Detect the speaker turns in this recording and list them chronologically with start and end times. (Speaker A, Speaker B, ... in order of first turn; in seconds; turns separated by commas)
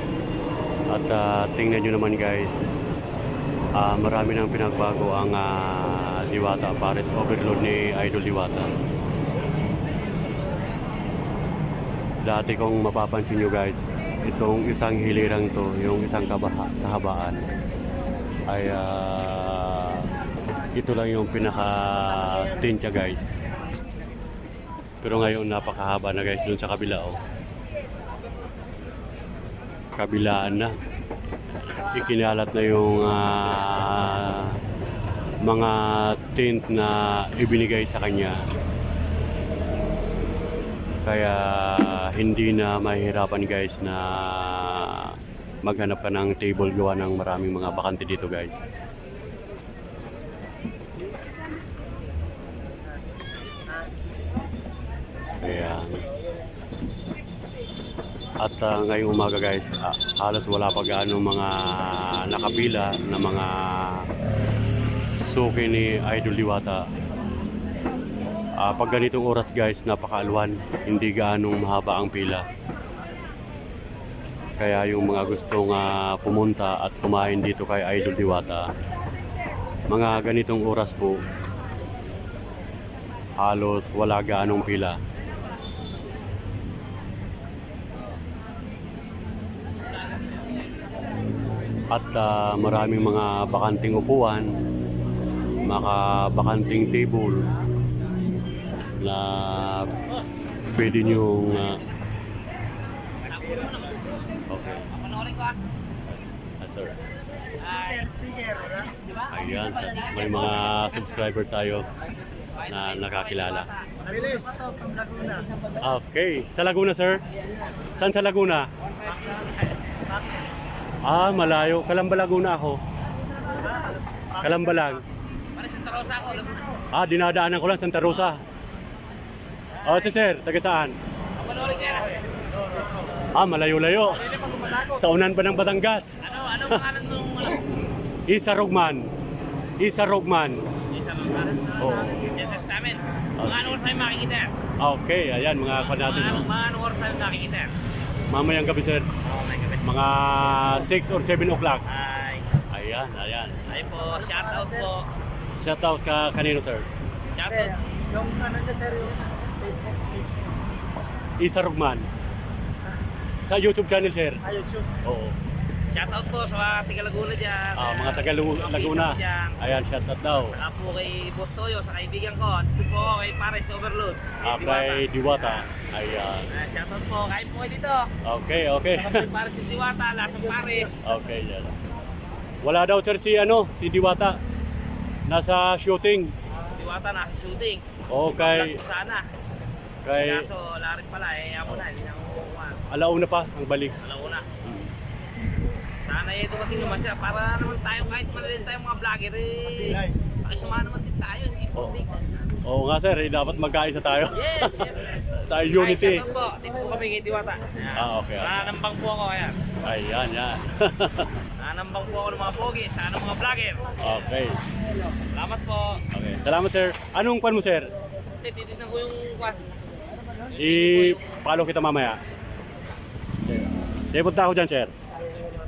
Speaker A: 0.9-2.5, Speaker A: 3.8-8.7, Speaker A: 12.2-17.4, Speaker A: 18.5-20.1, Speaker A: 20.7-23.2, Speaker A: 25.0-27.2, Speaker A: 30.0-30.7, Speaker A: 31.8-34.5, Speaker A: 35.5-38.4, Speaker A: 41.0-45.1, Speaker A: 45.7-48.5, Speaker A: 55.4-56.0, Speaker A: 58.4-64.0, Speaker A: 65.2-66.8, Speaker A: 68.6-72.5, Speaker A: 74.6-78.7, Speaker A: 79.9-81.2, Speaker A: 83.4-85.0, Speaker A: 91.9-94.5, Speaker A: 95.6-97.5, Speaker A: 99.0-99.9, Speaker A: 100.7-101.8, Speaker B: 103.2-104.1, Speaker A: 104.5-104.9, Speaker B: 104.8-105.6, Speaker A: 106.6-107.0, Speaker B: 107.6-108.7, Speaker A: 109.3-111.9, Speaker B: 112.6-114.7, Speaker A: 112.7-113.7, Speaker C: 114.6-115.5, Speaker A: 115.8-117.2, Speaker A: 118.0-118.7, Speaker A: 121.0-122.8, Speaker A: 124.4-125.0, Speaker B: 125.5-126.7, Speaker A: 126.9-128.4, Speaker B: 129.8-130.2, Speaker A: 129.8-130.9, Speaker B: 131.4-132.2, Speaker A: 133.3-136.2, Speaker B: 136.2-137.7, Speaker A: 138.3-139.1, Speaker A: 139.8-140.6, Speaker B: 140.9-144.5, Speaker A: 141.8-142.3, Speaker A: 143.4-143.8, Speaker A: 144.8-146.5, Speaker B: 145.7-147.7, Speaker A: 148.3-149.1, Speaker B: 149.2-149.8, Speaker A: 149.8-151.8, Speaker B: 151.9-152.5, Speaker A: 152.7-153.7, Speaker B: 153.7-155.1, Speaker A: 155.6-156.9, Speaker B: 157.3-157.8, Speaker C: 158.1-160.2, Speaker A: 161.4-162.1, Speaker A: 163.4-164.4, Speaker C: 164.5-164.9, Speaker A: 165.0-165.4, Speaker B: 165.9-169.7, Speaker A: 167.8-170.6, Speaker B: 170.6-175.7, Speaker A: 174.4-176.5, Speaker B: 176.5-178.1, Speaker A: 178.2-179.3, Speaker B: 178.9-181.1, Speaker A: 181.0-181.8, Speaker A: 182.6-184.4, Speaker A: 185.3-186.3, Speaker B: 186.7-187.8, Speaker A: 188.1-188.8, Speaker B: 188.4-189.3, Speaker A: 190.0-190.5, Speaker B: 190.1-192.8, Speaker A: 192.9-194.0, Speaker B: 194.0-194.5, Speaker A: 194.6-194.9, Speaker B: 196.1-202.2, Speaker A: 202.6-206.3, Speaker B: 204.3-205.1, Speaker B: 205.7-209.7, Speaker A: 207.9-208.7, Speaker A: 209.8-211.4, Speaker B: 211.6-214.3, Speaker A: 214.0-214.6, Speaker B: 215.3-216.0, Speaker A: 216.1-217.9, Speaker B: 218.4-219.7, Speaker B: 220.5-221.2, Speaker A: 220.6-222.2, Speaker A: 223.4-224.9